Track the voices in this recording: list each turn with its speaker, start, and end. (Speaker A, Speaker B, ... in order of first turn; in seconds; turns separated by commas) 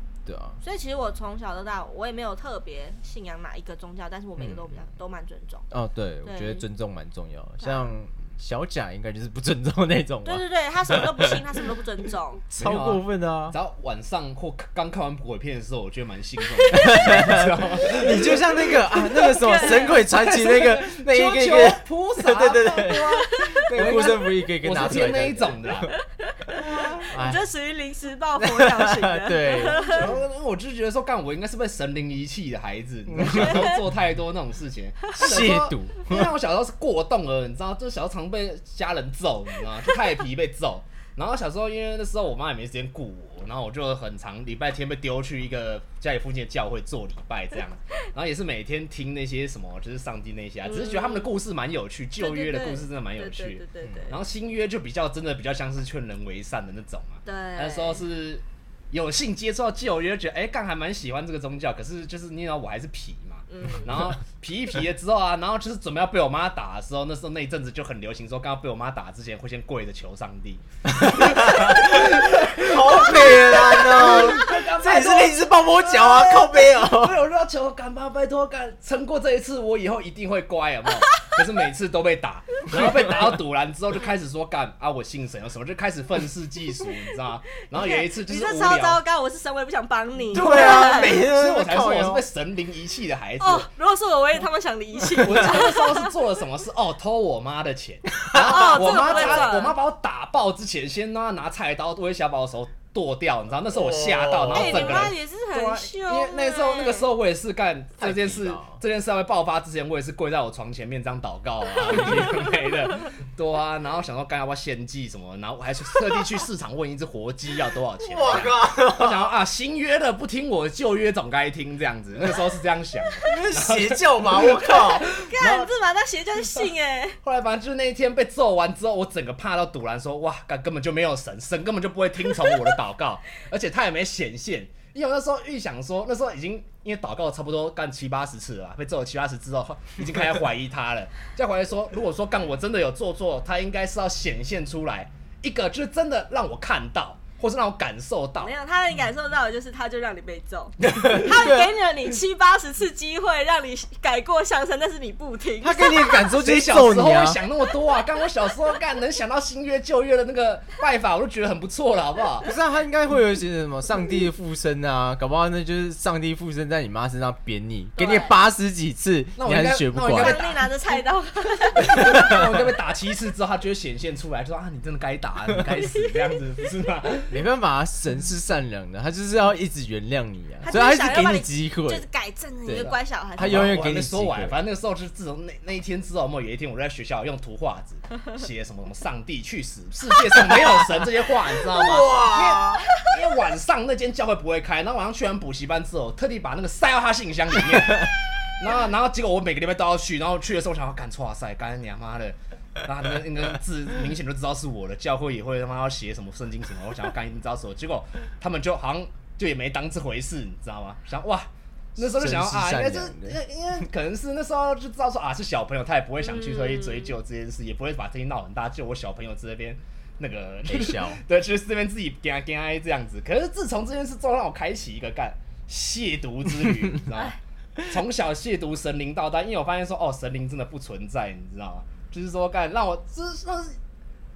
Speaker A: 0.2-0.6, Speaker B: 0.6-5.7, Speaker A: 4.4-4.8, Speaker A: 5.7-11.4, Speaker B: 6.2-6.6, Speaker B: 7.6-7.9, Speaker B: 10.2-12.4, Speaker C: 12.5-25.9, Speaker A: 12.6-13.6, Speaker B: 16.5-17.2, Speaker A: 16.7-25.9, Speaker B: 19.3-20.0, Speaker B: 23.2-23.6, Speaker B: 26.1-30.1, Speaker C: 26.6-27.0, Speaker A: 27.0-27.4, Speaker A: 28.4-30.2, Speaker C: 29.8-89.0, Speaker A: 33.1-33.9, Speaker B: 33.3-33.8, Speaker A: 35.2-36.3, Speaker B: 50.6-51.3, Speaker B: 52.2-54.2, Speaker A: 53.8-54.1, Speaker B: 57.2-58.0, Speaker B: 63.5-63.9, Speaker A: 70.9-77.2, Speaker B: 81.1-81.4, Speaker A: 82.7-83.3, Speaker B: 87.6-91.2, Speaker C: 90.3-93.7, Speaker A: 90.3-92.3, Speaker B: 93.4-96.1, Speaker C: 95.2-125.6, Speaker A: 98.2-99.5, Speaker B: 98.3-99.8, Speaker A: 103.7-105.2, Speaker B: 104.5-107.1, Speaker A: 108.0-108.8, Speaker A: 118.0-119.3, Speaker A: 123.2-125.7, Speaker B: 124.6-127.2, Speaker C: 127.2-148.5, Speaker B: 148.4-156.4, Speaker A: 150.9-151.7, Speaker A: 155.6-157.4, Speaker C: 156.3-162.5, Speaker A: 162.4-170.4, Speaker B: 168.0-168.4, Speaker C: 169.4-171.0, Speaker B: 170.1-172.1, Speaker C: 171.8-177.4, Speaker A: 171.8-172.7, Speaker B: 175.8-176.1, Speaker A: 177.3-182.1, Speaker B: 180.6-183.8, Speaker A: 182.7-184.6, Speaker C: 183.4-233.8, Speaker A: 191.7-192.9, Speaker A: 212.0-213.4, Speaker B: 216.2-217.1, Speaker A: 220.7-221.2